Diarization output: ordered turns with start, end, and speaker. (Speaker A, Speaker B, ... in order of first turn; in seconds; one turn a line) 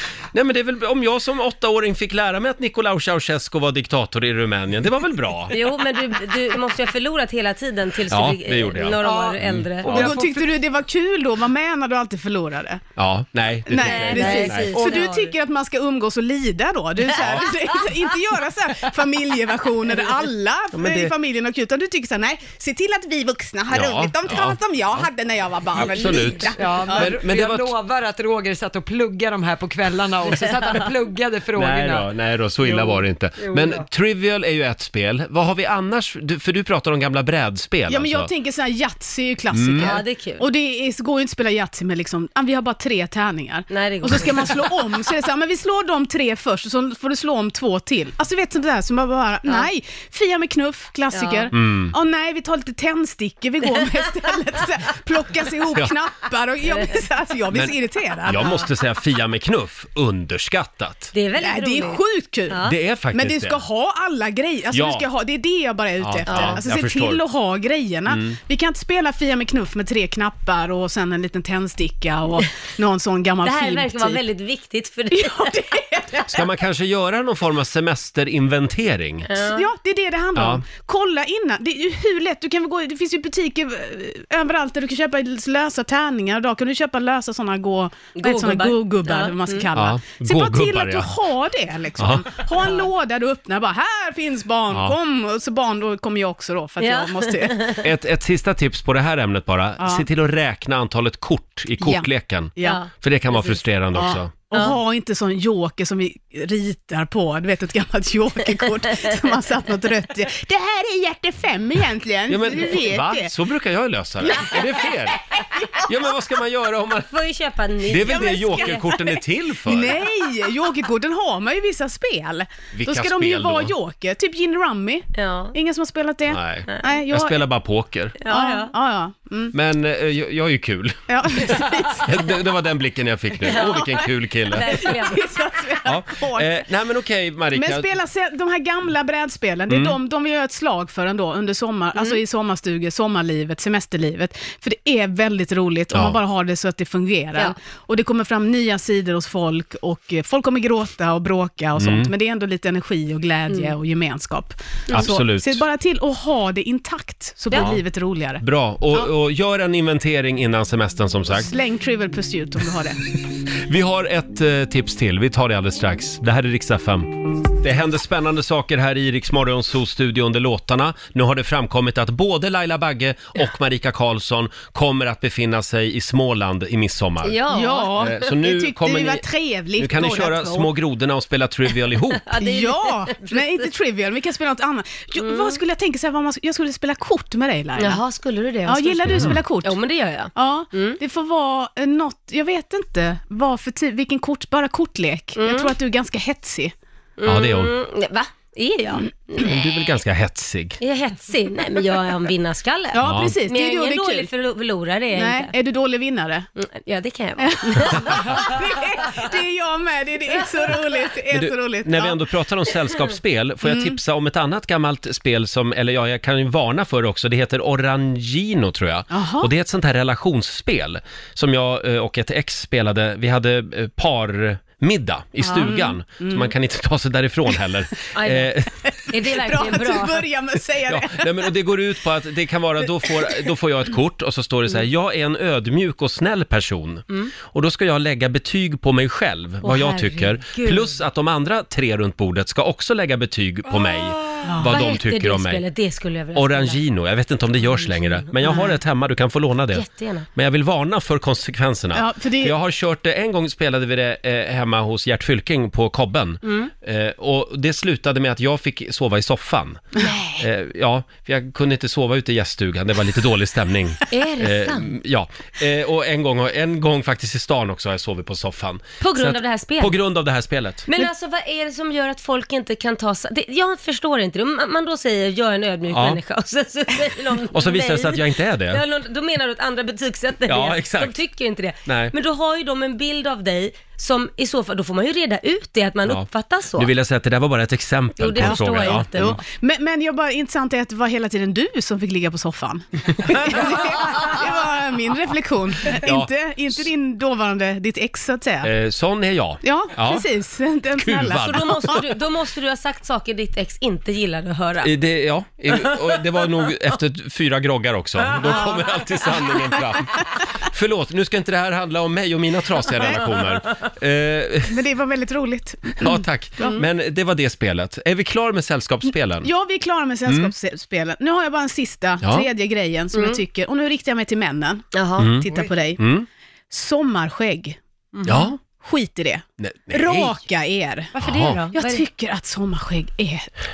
Speaker A: 0.3-5.6
Speaker B: 5.5-9.9
Speaker A: 8.1-10.2
Speaker C: 9.0-10.5
Speaker D: 9.9-12.8
Speaker A: 13.0-14.8
Speaker D: 13.7-27.1
Speaker B: 13.8-15.3
Speaker A: 17.2-17.4
Speaker A: 20.7-21.1
Speaker A: 23.7-25.1
Speaker A: 25.7-27.7
Speaker C: 26.6-32.1
Speaker A: 31.5-38.3
Speaker C: 32.6-33.8
Speaker D: 37.9-58.6
Speaker A: 39.5-40.0
Speaker B: 39.8-40.5
Speaker B: 43.7-44.7
Speaker B: 51.1-51.5
Speaker A: 51.5-51.9
Speaker B: 56.7-57.0
Speaker A: 58.2-61.1
Speaker B: 61.1-62.7
Speaker D: 61.4-74.2
Speaker A: 62.6-63.6
Speaker A: 64.7-65.0
Speaker A: 66.0-67.2
Speaker B: 66.3-66.6
Speaker A: 68.1-68.4
Speaker B: 73.4-75.5
Speaker D: 75.1-76.4
Speaker A: 76.2-79.3
Speaker B: 79.3-79.7
Speaker D: 79.5-97.8
Speaker A: 80.3-80.6
Speaker B: 88.2-89.7
Speaker A: 89.7-91.1
Speaker A: 92.0-92.2
Speaker B: 92.6-92.9
Speaker A: 94.7-95.0
Speaker B: 96.8-97.8
Speaker A: 97.8-104.3
Speaker D: 99.8-100.0
Speaker D: 101.8-102.8
Speaker B: 102.6-103.6
Speaker D: 103.9-113.3
Speaker B: 104.5-104.8
Speaker A: 112.3-115.2
Speaker D: 114.2-115.8
Speaker A: 115.8-117.1
Speaker B: 117.1-118.9
Speaker A: 117.8-120.0
Speaker D: 118.0-127.4
Speaker A: 122.7-123.7
Speaker B: 125.1-125.5
Speaker A: 126.3-128.2
Speaker B: 128.2-128.7
Speaker D: 128.3-129.5
Speaker A: 129.5-134.8
Speaker D: 131.1-132.2
Speaker B: 133.5-134.0
Speaker D: 133.6-133.9
Speaker D: 134.5-136.6
Speaker B: 134.5-135.3
Speaker A: 135.8-137.9
Speaker D: 137.5-159.1
Speaker A: 139.7-139.9
Speaker B: 141.9-142.2
Speaker A: 145.9-146.2
Speaker A: 151.8-152.1
Speaker B: 153.5-153.7
Speaker A: 154.9-155.6
Speaker B: 157.5-157.8
Speaker A: 157.5-157.8
Speaker A: 158.4-161.5
Speaker D: 161.4-163.0
Speaker A: 163.7-167.1
Speaker A: 167.6-177.4
Speaker B: 177.2-178.0
Speaker D: 177.5-180.7
Speaker A: 178.0-179.2
Speaker A: 179.8-182.2
Speaker B: 182.3-183.7
Speaker D: 182.3-188.0
Speaker B: 185.2-185.6
Speaker B: 187.8-191.0
Speaker D: 188.7-189.8
Speaker A: 189.1-189.4
Speaker D: 190.3-196.7
Speaker B: 195.4-195.7
Speaker B: 197.2-199.6
Speaker A: 197.2-197.7
Speaker A: 199.4-200.8
Speaker B: 200.8-205.5
Speaker D: 202.9-204.3
Speaker A: 203.0-203.3
Speaker D: 205.1-206.5
Speaker B: 206.6-208.6
Speaker D: 207.4-212.2
Speaker A: 211.3-228.7
Speaker D: 213.6-213.9
Speaker D: 219.1-219.5
Speaker B: 225.4-225.8
Speaker D: 225.6-226.5
Speaker B: 228.1-228.5
Speaker B: 229.1-230.2
Speaker D: 229.3-231.5
Speaker A: 230.9-245.6
Speaker B: 239.6-240.9
Speaker D: 244.4-244.8
Speaker B: 244.7-246.8
Speaker A: 246.3-259.8
Speaker B: 247.6-248.3
Speaker D: 248.4-248.8
Speaker B: 249.7-250.3
Speaker D: 251.9-252.5
Speaker B: 256.4-256.7
Speaker B: 260.0-260.3
Speaker A: 260.4-270.9
Speaker B: 264.1-264.9
Speaker B: 269.0-269.9
Speaker B: 270.9-286.9
Speaker A: 275.9-276.2
Speaker A: 277.5-278.8
Speaker A: 280.5-281.2
Speaker A: 281.9-282.1
Speaker A: 286.1-289.4
Speaker B: 288.2-289.4
Speaker D: 288.4-298.7
Speaker A: 296.0-296.9
Speaker A: 298.6-300.2
Speaker D: 299.6-301.7
Speaker A: 300.9-302.0
Speaker B: 301.3-304.9
Speaker A: 304.8-314.7
Speaker D: 313.0-313.2
Speaker D: 314.7-316.8
Speaker A: 316.0-319.5
Speaker D: 319.4-326.0
Speaker A: 322.2-322.5
Speaker B: 323.1-323.4
Speaker B: 324.9-325.6
Speaker A: 325.2-325.4
Speaker A: 326.0-326.3
Speaker D: 326.7-331.1
Speaker B: 328.1-328.4
Speaker A: 328.2-328.6
Speaker A: 329.6-330.4
Speaker B: 331.1-332.0
Speaker A: 331.2-331.6
Speaker D: 331.7-333.5